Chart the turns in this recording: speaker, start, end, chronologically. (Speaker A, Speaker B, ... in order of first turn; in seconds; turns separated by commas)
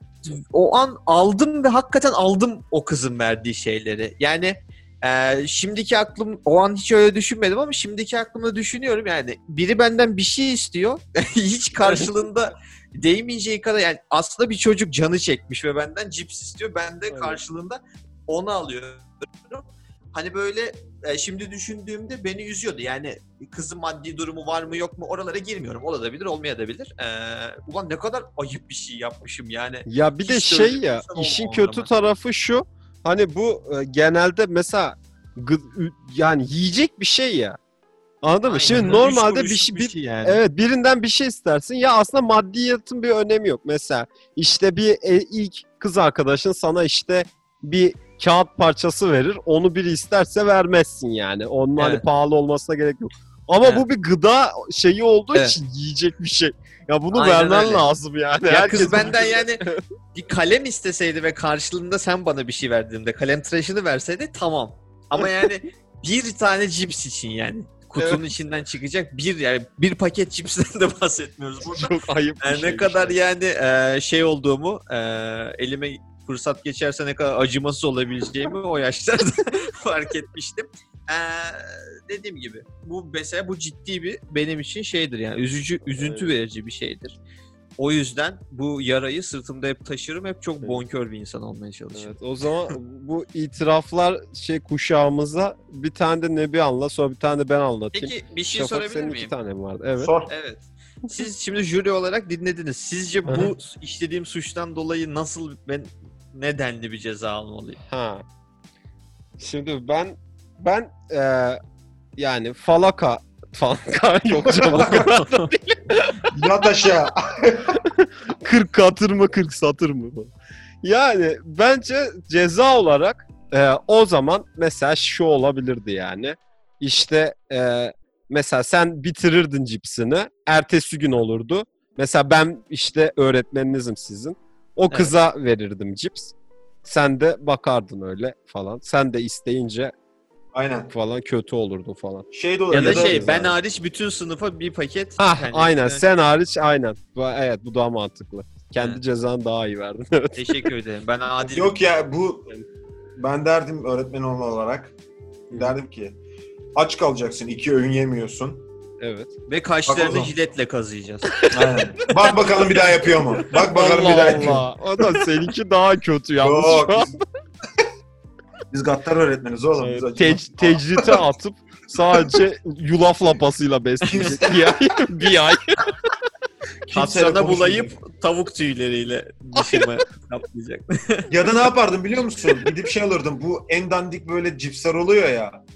Speaker A: 0.2-31.9, Speaker B: 11.8-12.1, Speaker B: 17.1-17.4, Speaker B: 29.9-37.6, Speaker B: 38.2-59.8, Speaker A: 38.5-40.4, Speaker A: 51.8-52.0, Speaker A: 57.1-57.9, Speaker A: 58.5-87.2, Speaker B: 71.7-73.2, Speaker B: 86.0-86.3, Speaker A: 87.8-92.1, Speaker B: 91.9-100.1, Speaker A: 97.9-99.3, Speaker C: 100.0-100.3, Speaker A: 100.3-107.8, Speaker B: 107.8-108.2, Speaker B: 109.4-111.6, Speaker B: 112.2-116.3, Speaker C: 114.4-115.1, Speaker A: 114.8-115.5, Speaker C: 116.3-117.8, Speaker B: 117.7-139.9, Speaker C: 140.5-140.9, Speaker B: 140.9-143.5, Speaker C: 142.3-143.4, Speaker A: 142.7-146.0, Speaker B: 145.2-150.7, Speaker A: 150.3-151.8, Speaker C: 151.5-152.5, Speaker C: 153.2-154.9, Speaker B: 155.5-155.8, Speaker C: 155.5-156.2, Speaker C: 156.8-158.7, Speaker B: 159.0-159.3, Speaker A: 159.5-161.3, Speaker C: 159.8-160.3, Speaker B: 161.3-161.7, Speaker C: 161.5-164.7, Speaker B: 163.5-167.2, Speaker C: 166.4-167.2, Speaker C: 168.7-171.3, Speaker B: 169.8-176.1, Speaker C: 174.1-174.8, Speaker C: 176.8-178.0, Speaker A: 176.9-181.3, Speaker B: 179.6-179.9, Speaker C: 181.3-185.6